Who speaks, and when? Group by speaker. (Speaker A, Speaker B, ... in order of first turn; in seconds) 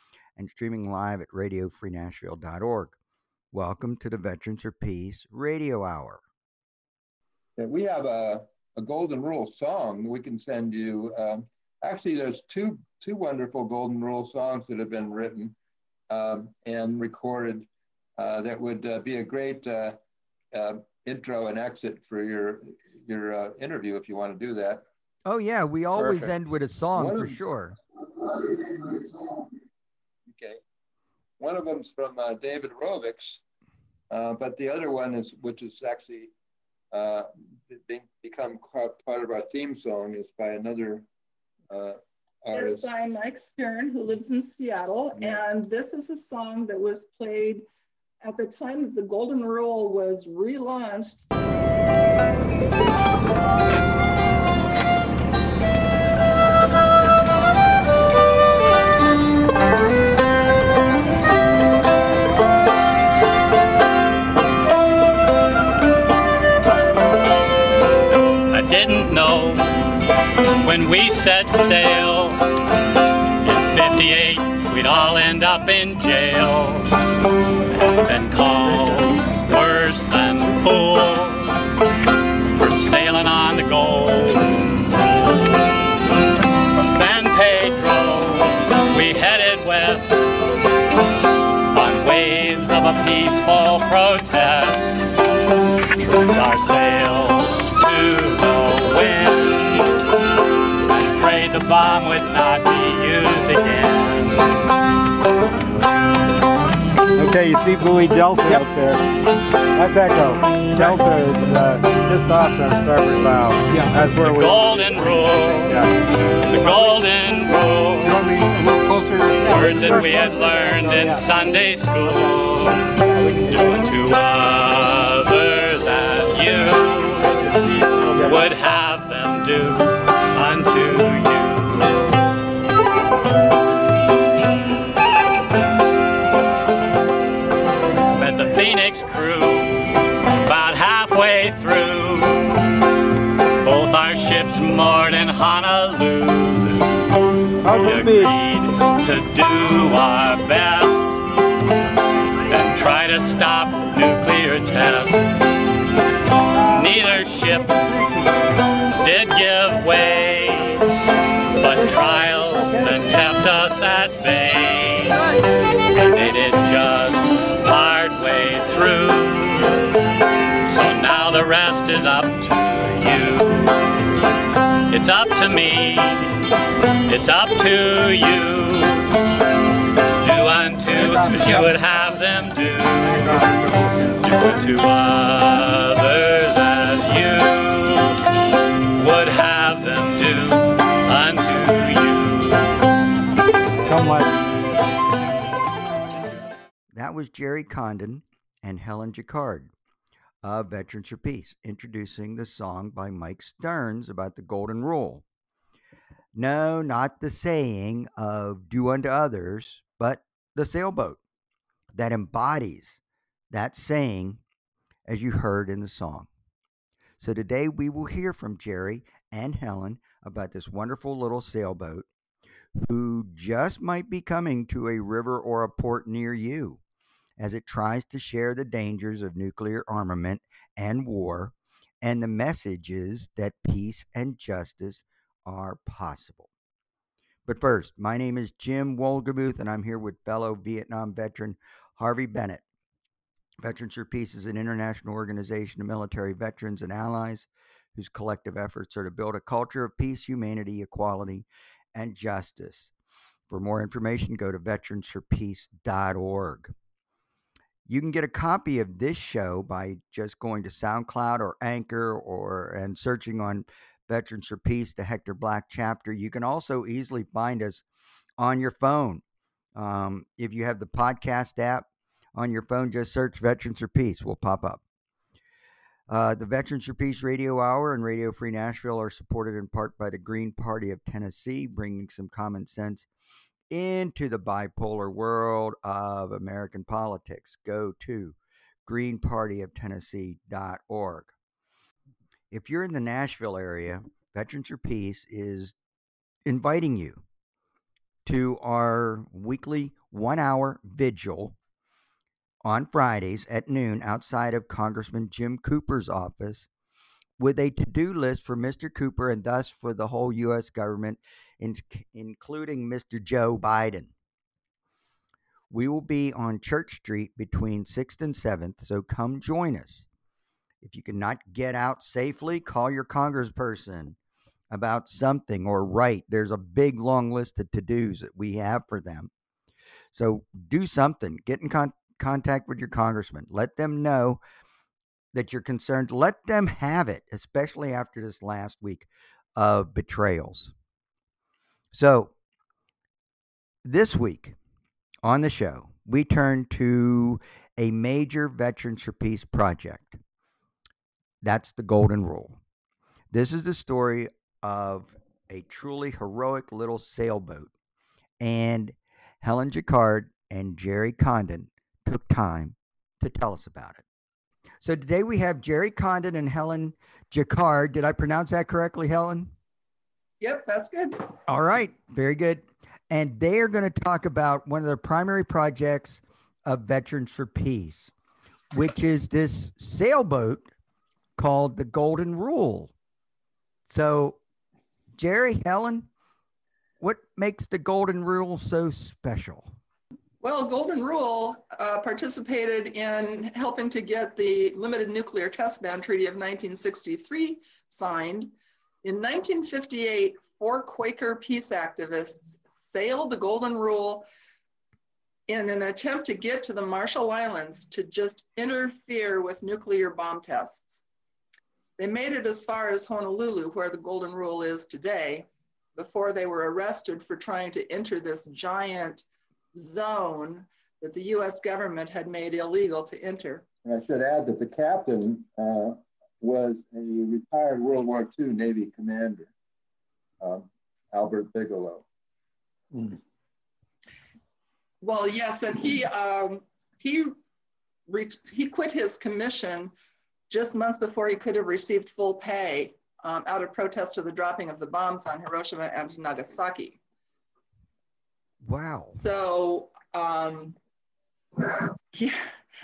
Speaker A: 0.3-3.0, 3.5-6.2, 25.2-27.8, 196.9-199.7, 200.4-205.2, 206.3-211.2, 211.9-213.0, 213.5-214.4, 215.1-216.3, 217.2-222.1, 222.8-226.8, 227.4-236.5, 237.4-242.6, 243.6-252.9, 253.5-256.7, 257.9-267.8, 268.4-269.2, 269.7-274.8, 276.1-283.1, 283.7-291.3, 292.5-295.7, 296.4-297.2, 298.2-301.6, 302.6-306.7, 307.4-314.1, 315.7-320.1, 320.8-324.1, 324.7-329.3, 330.1-334.4, 335.3-340.7, 341.9-342.3, 343.8-344.6, 345.2-350.2, 351.4-352.6, 353.3-357.7, 358.4-364.0, 364.8-369.5, 371.5-378.1, 378.7-380.7, 381.4-382.9, 383.9-384.4, 385.1-386.1, 387.0-389.7, 448.6-449.2
Speaker B: 7.6-15.6, 16.1-20.0, 20.5-24.8, 26.9-27.4, 28.1-29.4, 30.3-30.6, 31.4-33.4, 34.1-36.3, 36.9-41.0, 41.7-42.9, 423.8-429.5, 430.4-432.0
Speaker C: 26.0-26.3, 68.5-69.8, 70.6-72.5, 73.4-76.9, 77.7-81.6, 82.5-85.7, 86.7-90.6, 91.7-95.0, 95.9-100.0, 100.8-104.5, 113.9-115.8, 116.5-118.2, 119.4-127.4, 128.1-131.9, 138.1-142.7, 143.6-146.9, 147.7-151.2, 152.5-155.3, 156.6-157.9, 159.0-160.9, 161.5-165.2, 165.9-169.9, 170.6-173.9, 174.9-176.5, 177.1-179.1, 180.2-188.2, 188.9-192.7
Speaker D: 42.5-47.6, 48.2-51.3, 370.4-371.3, 390.4-398.5, 399.0-404.3, 405.5-411.0, 412.0-423.6, 435.0-437.4, 438.1-439.9, 440.5-447.0, 449.1-450.8, 451.7-452.4
Speaker E: 107.1-109.0, 109.7-115.9, 118.0-121.2, 123.0-123.7, 128.0-128.4, 147.6-148.3, 193.8-194.3